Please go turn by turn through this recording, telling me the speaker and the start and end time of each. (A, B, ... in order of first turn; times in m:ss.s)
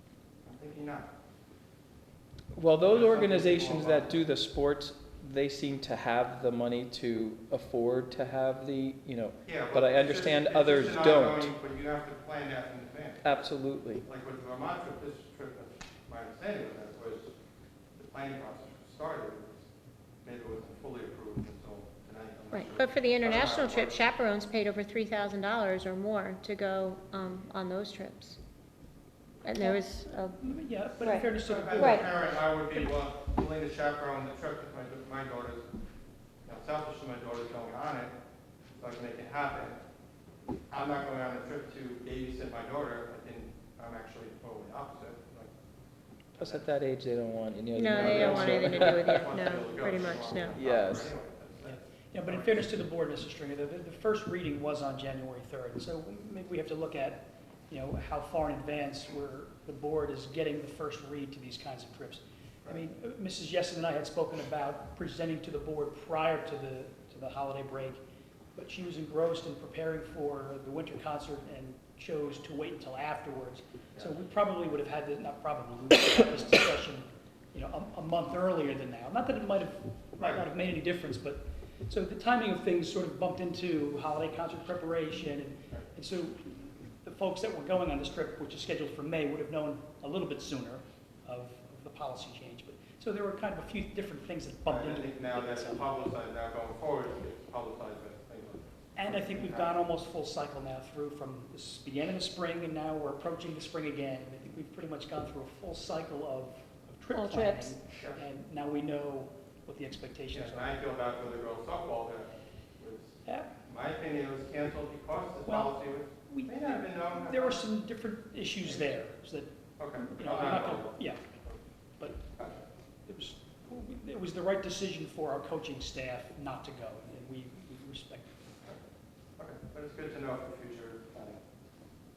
0:00.4-0:01.1 A
0:02.5-0:11.5 B
0:02.9-0:04.2 A
0:09.4-0:13.3 A
0:13.2-0:14.0 B
0:14.0-0:17.3 A
0:18.0-0:19.6 A
0:20.2-0:24.0 A
0:22.5-0:28.4 C
0:29.4-0:30.4 C
0:29.6-0:29.8 D
0:30.4-0:32.2 D
0:31.4-0:35.7 A
0:31.8-0:32.1 C
0:36.4-0:38.1 A
0:38.8-0:39.8 A
0:40.7-0:45.5 A
0:46.4-0:49.3 B
0:46.4-0:46.7 A
0:47.7-0:50.6 C
0:47.9-0:52.6 A
0:50.6-0:51.1 B
0:51.6-1:08.0 D
1:08.6-1:35.9 D
1:20.2-1:20.4 A
1:34.7-1:39.7 A
1:39.0-1:50.8 D
1:47.1-1:47.8 C
1:47.9-1:48.2 A
1:50.3-1:57.6 A
1:53.2-1:53.5 D
1:55.5-2:01.2 D
1:59.8-2:01.6 A
2:02.4-2:02.6 A
2:03.1-2:08.3 D
2:09.4-2:11.4 A